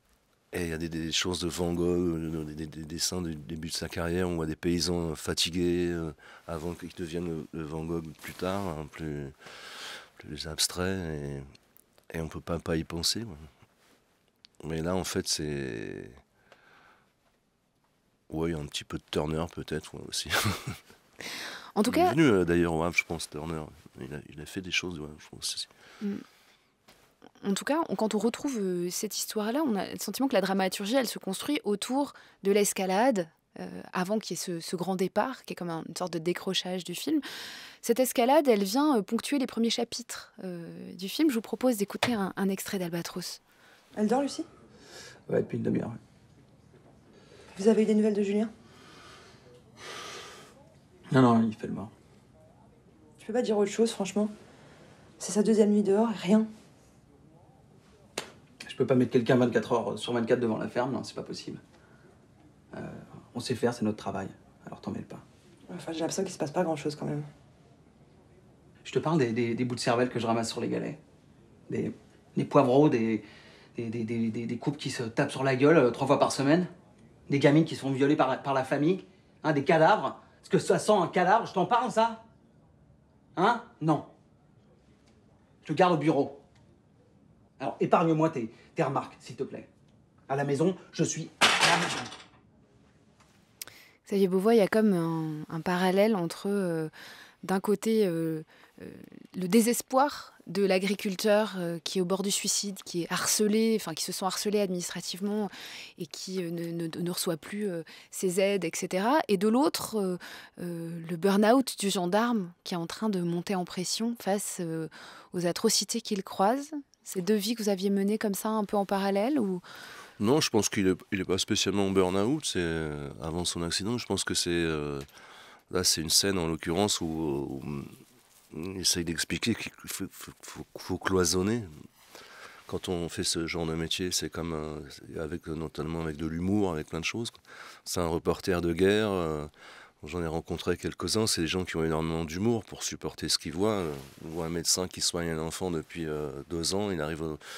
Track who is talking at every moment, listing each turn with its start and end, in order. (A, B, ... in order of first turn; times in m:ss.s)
0:00.5-0:11.5 A
0:12.1-0:13.5 A
0:14.6-0:16.2 A
0:18.3-0:20.8 A
0:21.8-0:22.2 B
0:21.8-0:25.7 A
0:27.4-0:37.2 B
0:37.8-0:43.4 B
0:43.9-0:44.5 C
0:45.3-0:46.0 D
0:47.5-0:48.5 C
0:51.1-0:51.9 D
0:53.2-0:54.3 C
0:55.2-0:56.5 C
0:58.6-1:01.6 D
1:02.7-1:05.2 D
1:05.7-1:07.3 C
1:08.8-1:11.0 D
1:11.7-1:16.7 D
1:17.3-1:22.2 D
1:23.4-1:24.1 D
1:25.6-1:26.4 D
1:27.6-1:29.7 D
1:30.3-1:32.1 D
1:34.1-1:36.9 B
1:37.4-1:59.6 B
2:00.2-2:05.1 A
2:05.7-2:08.0 A
2:08.5-2:11.7 A
2:12.7-2:27.4 A